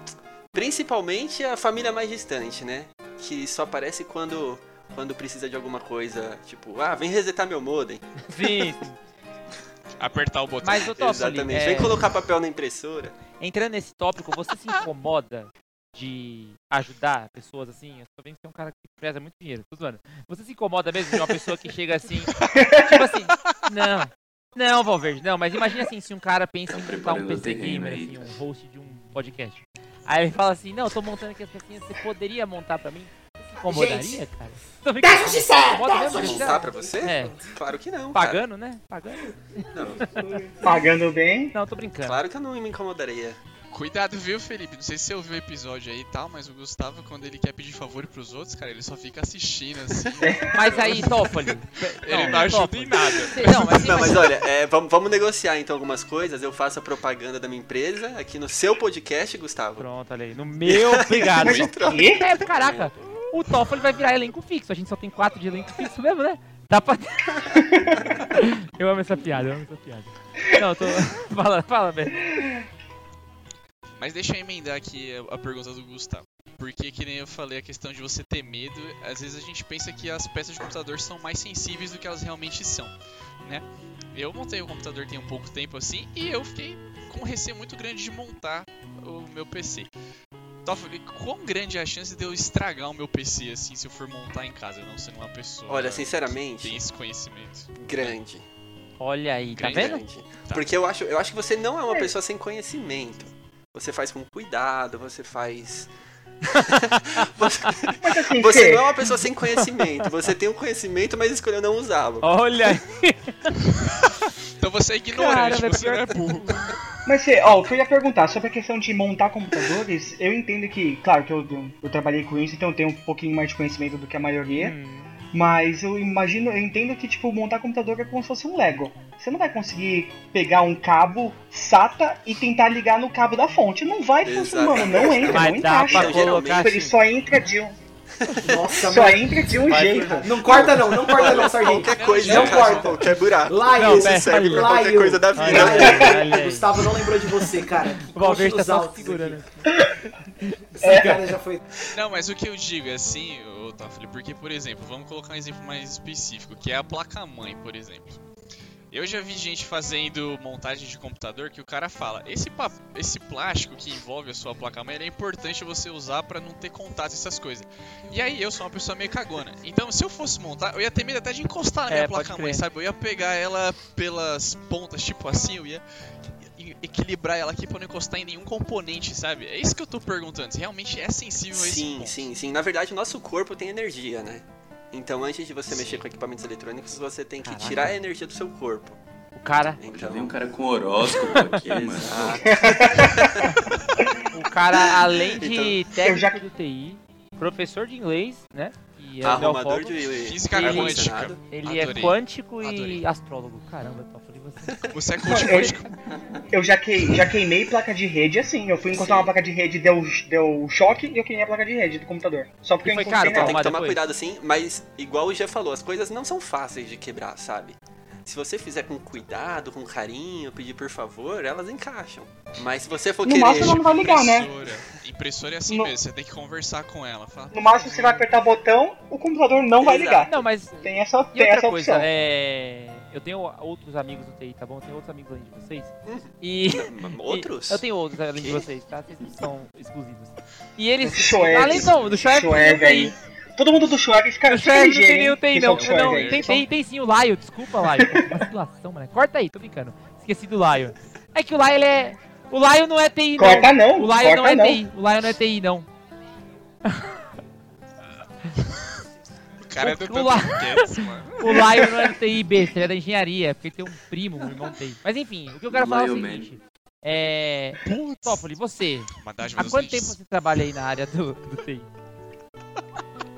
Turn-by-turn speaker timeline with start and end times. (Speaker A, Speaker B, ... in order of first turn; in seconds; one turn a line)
Speaker A: 0.5-8.4
Speaker B: 8.3-9.0
Speaker C: 10.0-11.0
Speaker B: 10.6-12.1
Speaker A: 10.9-13.2
Speaker B: 13.4-37.4
Speaker D: 22.5-23.0
Speaker E: 26.7-28.4
Speaker F: 33.6-34.2
Speaker F: 35.0-37.5
Speaker A: 36.1-38.4
Speaker B: 38.1-39.3
Speaker A: 39.7-40.1
Speaker F: 40.1-40.8
Speaker D: 40.6-41.6
Speaker B: 41.5-42.2
Speaker A: 42.0-43.4
Speaker C: 43.7-54.2
Speaker D: 50.2-50.9
Speaker B: 50.5-54.4
Speaker A: 53.7-59.9
Speaker B: 59.8-72.4
Speaker A: 60.6-62.9
Speaker D: 61.5-62.3
Speaker C: 74.0-89.9
Speaker C: 90.6-98.2
Speaker A: 95.7-96.8
Speaker A: 97.8-98.5
Speaker B: 99.0-100.0
Speaker C: 99.5-100.7
Speaker A: 99.6-105.9
Speaker A: 106.5-112.3
Speaker D: 108.0-108.9
Speaker B: 112.2-113.5
Speaker C: 114.6-116.6
Speaker B: 115.1-116.7
Speaker D: 117.1-124.8
Speaker B: 124.6-125.2
Speaker D: 125.3-137.8
Speaker A: 134.2-136.7
Speaker B: 135.2-137.0
Speaker A: 138.2-138.6
Speaker F: 138.4-139.4
Speaker D: 138.9-140.4
Speaker B: 139.5-141.0
Speaker F: 140.2-149.4
Speaker A: 140.5-146.2
Speaker C: 141.1-143.5
Speaker B: 143.7-149.7
Speaker D: 149.7-150.0
Speaker B: 150.4-151.3
Speaker F: 150.8-151.6
Speaker D: 150.8-151.2
Speaker C: 151.9-158.2
Speaker C: 158.9-175.8
Speaker B: 171.9-172.6
Speaker C: 176.4-182.3
Speaker A: 181.5-189.0
Speaker B: 187.4-188.0
Speaker B: 189.3-189.8
Speaker A: 189.8-190.4
Speaker E: 189.8-192.5
Speaker A: 191.2-193.6
Speaker B: 191.3-191.6
Speaker D: 192.5-193.3
Speaker B: 194.3-205.7
Speaker A: 195.3-195.8
Speaker D: 196.0-196.4
Speaker A: 199.2-201.4
Speaker C: 200.2-203.0
Speaker C: 204.9-205.9
Speaker D: 205.2-205.8
Speaker D: 206.5-213.6
Speaker A: 208.9-209.3
Speaker B: 212.8-214.1
Speaker A: 213.2-224.0
Speaker D: 223.2-224.5
Speaker C: 223.5-228.1
Speaker D: 225.7-225.9
Speaker D: 227.5-232.1
Speaker B: 227.8-228.2
Speaker A: 229.8-230.5
Speaker B: 230.2-243.1
Speaker A: 236.1-237.8
Speaker A: 238.4-238.6
Speaker D: 241.0-246.7
Speaker B: 244.5-255.9
Speaker C: 245.8-246.4
Speaker D: 247.9-248.4
Speaker D: 253.4-254.8
Speaker B: 256.9-257.3
Speaker C: 259.6-261.9
Speaker B: 259.8-271.9
Speaker E: 265.6-266.6
Speaker C: 269.2-270.2